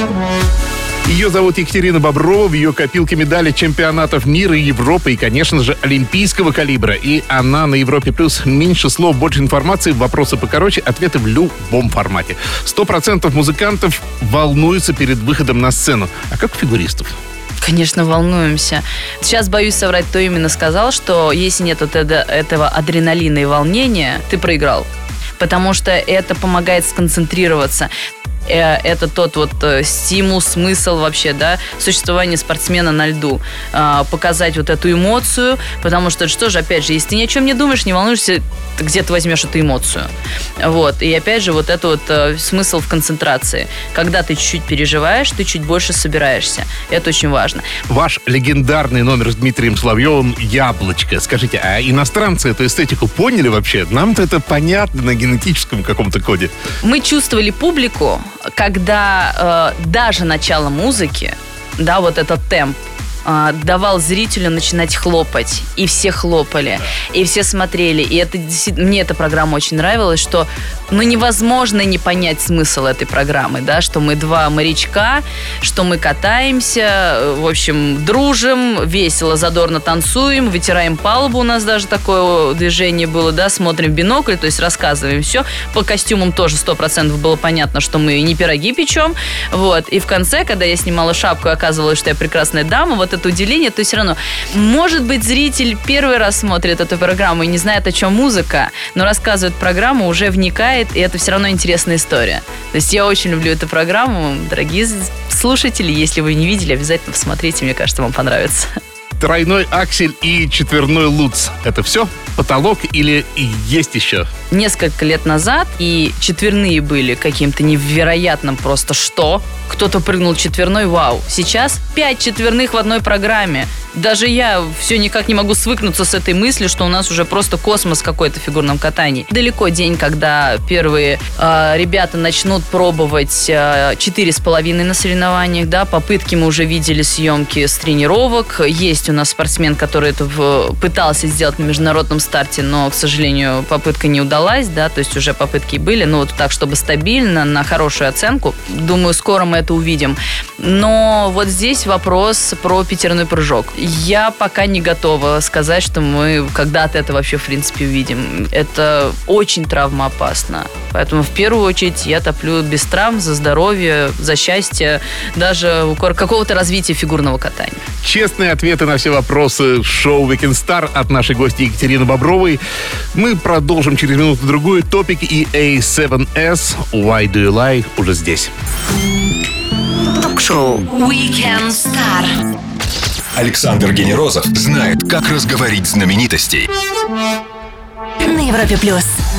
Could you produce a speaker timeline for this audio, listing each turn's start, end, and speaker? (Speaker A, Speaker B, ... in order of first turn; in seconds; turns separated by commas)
Speaker A: 1.1-17.1, Speaker B: 17.6-24.9, Speaker B: 25.4-27.9, Speaker B: 28.5-40.1, Speaker B: 40.6-47.7, Speaker A: 47.9-56.5, Speaker B: 56.8-108.7, Speaker A: 109.2-114.3, Speaker B: 114.5-167.8, Speaker A: 168.0-172.6, Speaker A: 173.1-178.5, Speaker C: 180.0-182.4, Speaker D: 183.3-186.7, Speaker C: 188.2-189.2